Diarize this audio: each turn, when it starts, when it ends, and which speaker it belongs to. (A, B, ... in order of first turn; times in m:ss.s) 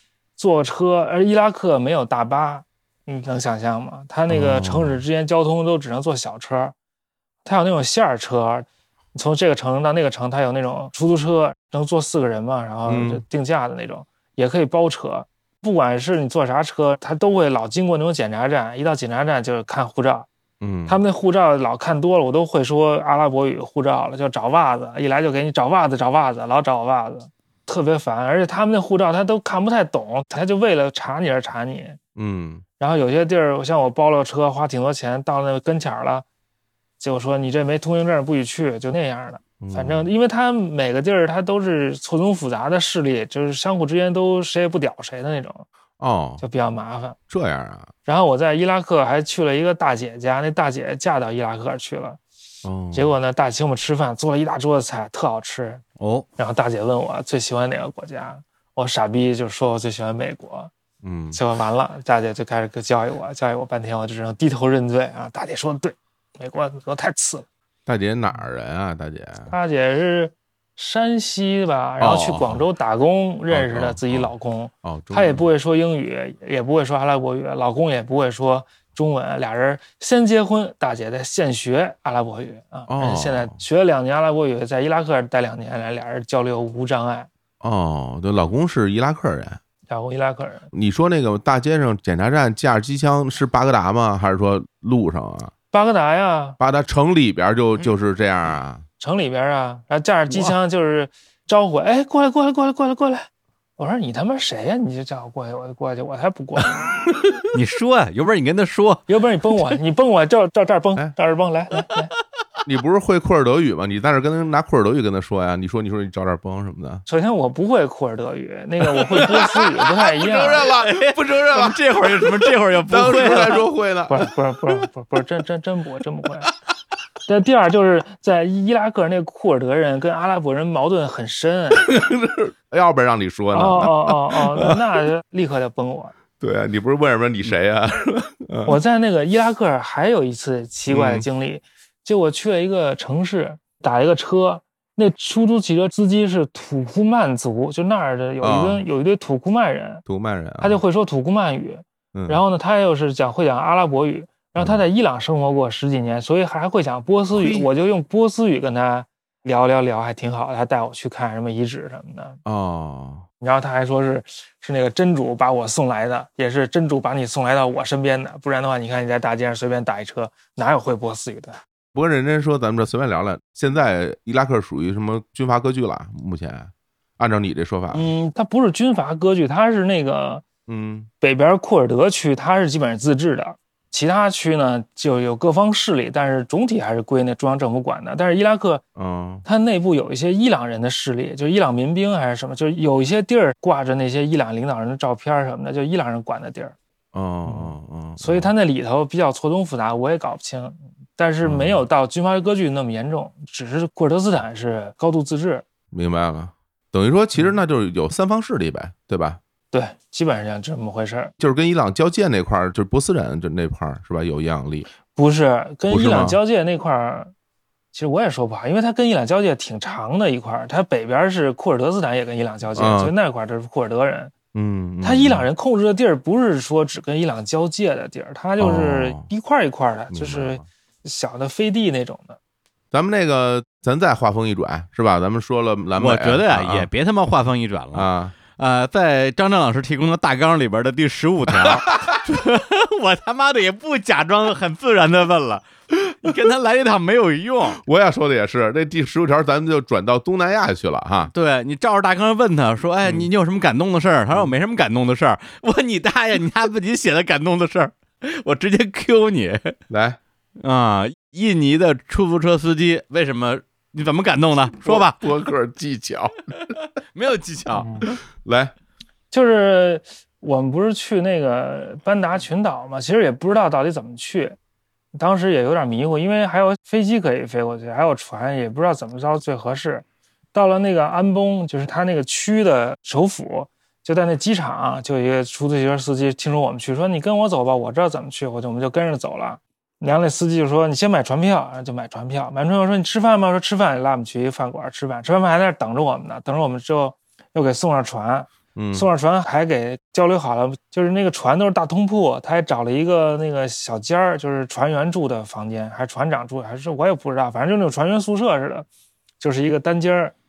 0:00.4-0:06.7 A
0:04.3-0:05.0 B
0:07.4-0:20.3 A
0:12.9-0:13.2 B
0:20.6-0:21.0 B
0:20.9-0:32.0 A
0:32.2-0:32.6 B
0:32.8-0:36.2 A
0:37.0-0:45.7 A
0:39.6-0:40.1 B
0:46.0-0:46.4 B
0:46.4-0:47.2 A
0:47.3-0:47.9 B
0:48.1-0:52.2 A
0:52.6-0:53.1 B
0:52.9-0:55.8 A
0:56.0-0:56.3 C
0:56.4-1:00.7 A
1:01.0-1:01.4 B
1:01.3-1:07.5 A
1:07.9-1:09.5 B
1:09.5-1:27.3 A
1:12.0-1:12.6 B
1:13.5-1:14.3 B
1:14.8-1:15.5 B
1:22.9-1:23.6 B
1:27.6-1:29.6 B
1:29.9-1:30.7 A
1:30.7-1:35.5 B
1:35.7-1:36.6 A
1:36.6-1:38.8 B
1:39.0-1:46.9 A
1:47.5-1:49.0 C
1:49.1-1:52.1 A
1:52.7-1:57.0 B
1:57.1-2:00.7 A
1:58.9-2:04.3 B
2:00.7-2:03.6 C
2:04.1-2:06.5 A
2:07.3-2:11.9 A
2:11.8-2:15.0 B
2:13.5-2:16.2 A
2:16.4-2:18.8 B
2:18.7-2:30.0 A
2:20.9-2:21.3 B
2:28.4-2:28.8 B
2:30.1-2:30.8 B
2:30.6-2:42.4 A
2:32.1-2:32.4 B
2:34.6-2:34.8 B
2:37.3-2:37.7 B
2:42.4-2:43.2 B
2:43.4-2:51.6 A
2:51.9-2:58.1 B
2:57.9-3:00.4 A
3:00.7-3:01.1 B
3:01.2-3:08.8 A
3:09.0-3:09.4 B
3:09.4-3:16.8 A
3:17.1-3:18.5 B
3:17.5-3:25.6 A
3:21.4-3:21.8 B
3:25.9-3:29.4 B
3:29.7-3:31.3 A
3:31.4-3:34.9 B
3:35.1-3:37.3 A
3:35.9-3:36.4 B
3:37.9-3:44.3 A
3:42.8-3:43.1 B
3:44.5-3:45.5 B
3:45.0-3:52.4 A
3:48.6-3:49.3 B
3:50.1-3:50.6 B
3:52.9-3:56.9 B
3:56.0-4:05.7 C
3:57.9-3:58.3 B
4:01.6-4:02.2 B
4:06.2-4:07.8 C
4:07.8-4:11.3 B
4:11.3-4:19.8 C
4:13.0-4:13.3 B
4:19.9-4:20.2 B
4:20.6-4:25.2 C
4:24.8-4:26.4 B
4:27.1-4:28.1 C
4:27.7-4:28.1 A
4:28.4-4:28.7 B
4:29.3-4:34.6 A
4:35.1-5:08.9 A
4:58.8-4:59.1 B
5:09.4-5:10.3 A